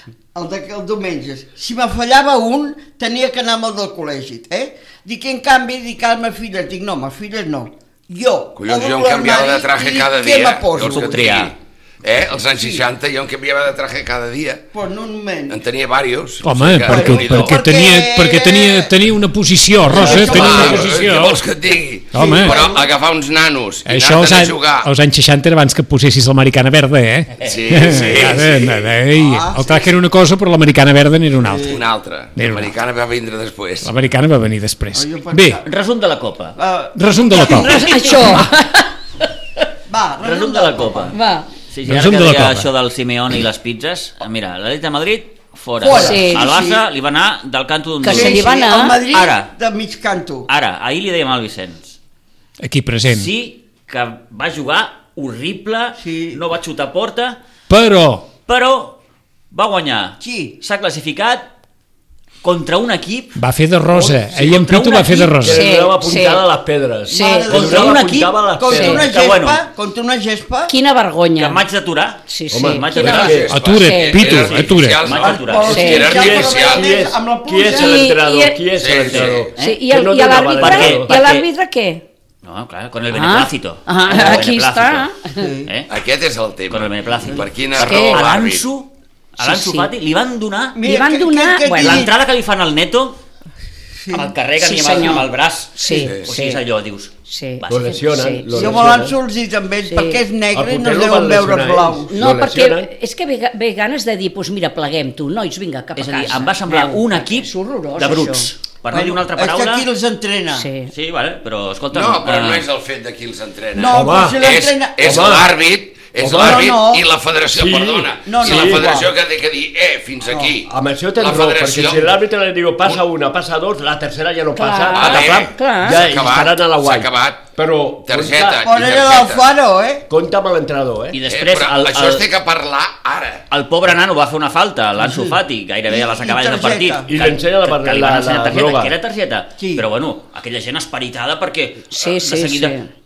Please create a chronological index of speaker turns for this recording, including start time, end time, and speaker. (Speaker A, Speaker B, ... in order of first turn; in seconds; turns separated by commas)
Speaker A: 0.3-11.1, Speaker B: 8.6-14.7, Speaker C: 10.8-11.5, Speaker A: 12.6-12.8, Speaker A: 14.7-15.6, Speaker B: 15.5-17.6, Speaker D: 16.4-21.4, Speaker A: 16.9-19.0, Speaker A: 19.8-21.1, Speaker B: 19.9-24.9, Speaker D: 22.1-22.6, Speaker A: 22.1-22.9, Speaker D: 23.9-31.7, Speaker B: 27.4-28.9, Speaker A: 29.1-30.0, Speaker A: 31.4-31.8, Speaker B: 31.7-33.9, Speaker D: 32.4-32.7, Speaker D: 33.8-35.6, Speaker A: 34.9-35.6, Speaker C: 35.6-36.6, Speaker A: 36.6-38.4, Speaker D: 37.0-37.8, Speaker E: 37.5-38.9, Speaker A: 39.9-41.1, Speaker C: 40.2-41.2, Speaker F: 40.4-41.0, Speaker E: 41.1-41.5, Speaker C: 41.7-49.5, Speaker D: 41.9-42.7, Speaker A: 45.8-46.8, Speaker E: 45.9-46.5, Speaker E: 48.0-49.0, Speaker A: 48.0-50.5, Speaker C: 50.5-52.0, Speaker D: 52.6-53.3, Speaker C: 53.0-57.4, Speaker A: 56.0-56.4, Speaker D: 57.7-58.3, Speaker C: 58.5-59.0, Speaker C: 59.5-61.5, Speaker A: 60.2-60.6, Speaker C: 62.4-63.4, Speaker D: 63.4-65.6, Speaker F: 63.9-69.2, Speaker E: 65.4-66.5, Speaker A: 67.1-70.7, Speaker E: 67.1-68.0, Speaker C: 67.5-69.6, Speaker E: 68.7-69.1, Speaker E: 70.7-71.6, Speaker C: 71.3-73.4, Speaker E: 72.3-74.4, Speaker F: 72.5-73.6, Speaker B: 73.0-76.9, Speaker D: 73.5-75.0, Speaker C: 74.3-75.9, Speaker A: 75.1-78.1, Speaker F: 75.4-81.1, Speaker E: 75.7-76.2, Speaker E: 77.7-78.7, Speaker B: 78.7-79.5, Speaker C: 79.0-79.8, Speaker E: 79.6-82.0, Speaker C: 80.5-81.5, Speaker C: 82.4-85.1, Speaker E: 83.1-85.5, Speaker A: 85.4-85.7, Speaker C: 85.6-85.9, Speaker B: 85.9-88.7, Speaker C: 86.7-90.8, Speaker E: 87.8-88.2, Speaker E: 89.4-89.9, Speaker A: 90.8-92.1, Speaker E: 90.8-92.1, Speaker C: 91.8-93.2, Speaker A: 94.0-94.3, Speaker C: 94.1-98.1, Speaker E: 94.6-96.6, Speaker B: 96.0-96.3, Speaker E: 97.2-98.6, Speaker F: 97.7-99.2, Speaker A: 98.5-102.1, Speaker E: 99.9-100.2, Speaker F: 100.5-102.9, Speaker E: 102.1-108.5, Speaker C: 105.9-109.9, Speaker A: 108.9-110.7, Speaker E: 110.5-110.9, Speaker C: 110.9-112.7, Speaker B: 111.9-122.1, Speaker A: 113.8-115.3, Speaker F: 113.9-115.5, Speaker F: 116.2-116.7, Speaker A: 116.2-117.0, Speaker F: 117.5-119.1, Speaker A: 118.2-119.1, Speaker A: 120.3-120.5, Speaker F: 120.6-128.7, Speaker E: 124.5-126.1, Speaker B: 124.9-127.5, Speaker B: 128.0-129.5, Speaker A: 128.6-130.1, Speaker F: 130.1-131.2, Speaker C: 131.1-132.3, Speaker B: 131.3-133.4, Speaker C: 133.5-142.8, Speaker A: 135.0-137.1, Speaker F: 137.1-139.0, Speaker A: 139.6-139.9, Speaker E: 141.9-142.9